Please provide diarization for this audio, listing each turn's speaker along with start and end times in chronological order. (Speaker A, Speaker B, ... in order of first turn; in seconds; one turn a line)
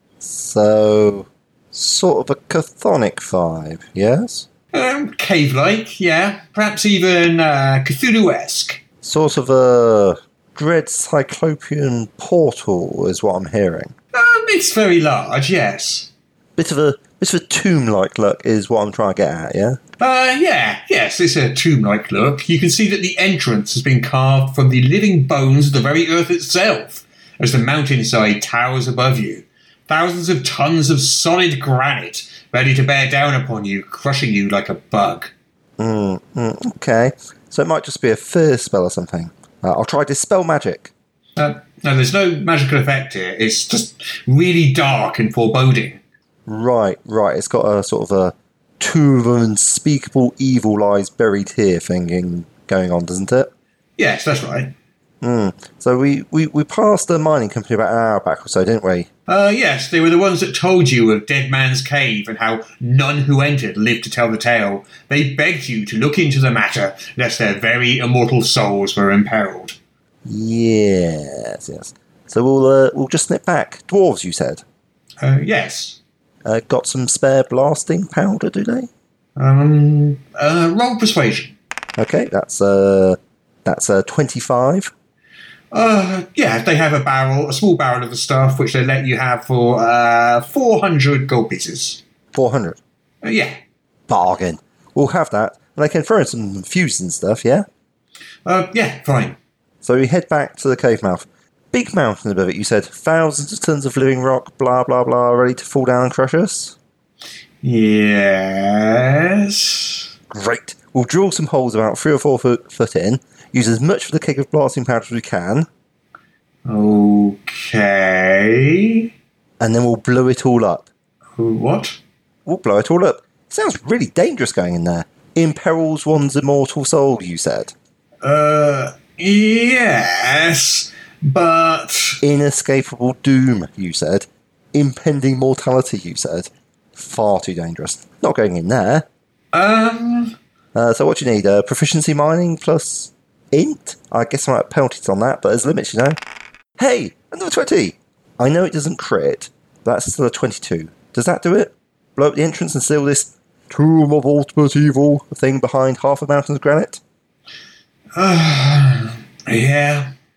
Speaker A: 0.2-4.5
Speaker B: 4.7-8.8
Speaker A: 9.0-13.9
Speaker B: 14.1-16.1
Speaker A: 16.6-19.8
Speaker B: 20.0-35.3
Speaker A: 35.8-40.9
Speaker B: 41.4-46.0
Speaker A: 46.5-53.5
Speaker B: 54.0-54.7
Speaker A: 55.2-59.1
Speaker B: 59.3-69.8
Speaker A: 70.3-74.6
Speaker B: 75.2-76.0
Speaker A: 76.5-78.9
Speaker B: 79.4-81.5
Speaker A: 82.0-84.9
Speaker B: 85.7-92.0
Speaker A: 92.3-92.8
Speaker B: 93.2-93.5
Speaker A: 94.1-97.7
Speaker B: 98.5-99.4
Speaker A: 99.8-106.8
Speaker B: 107.6-110.0
Speaker A: 110.3-115.7
Speaker B: 116.7-119.1
Speaker A: 119.6-120.9
Speaker B: 121.4-122.0
Speaker A: 122.5-127.7
Speaker B: 128.2-132.2
Speaker A: 132.2-139.1
Speaker B: 139.5-140.3
Speaker A: 140.8-146.2
Speaker A: 146.8-157.0
Speaker B: 158.2-160.1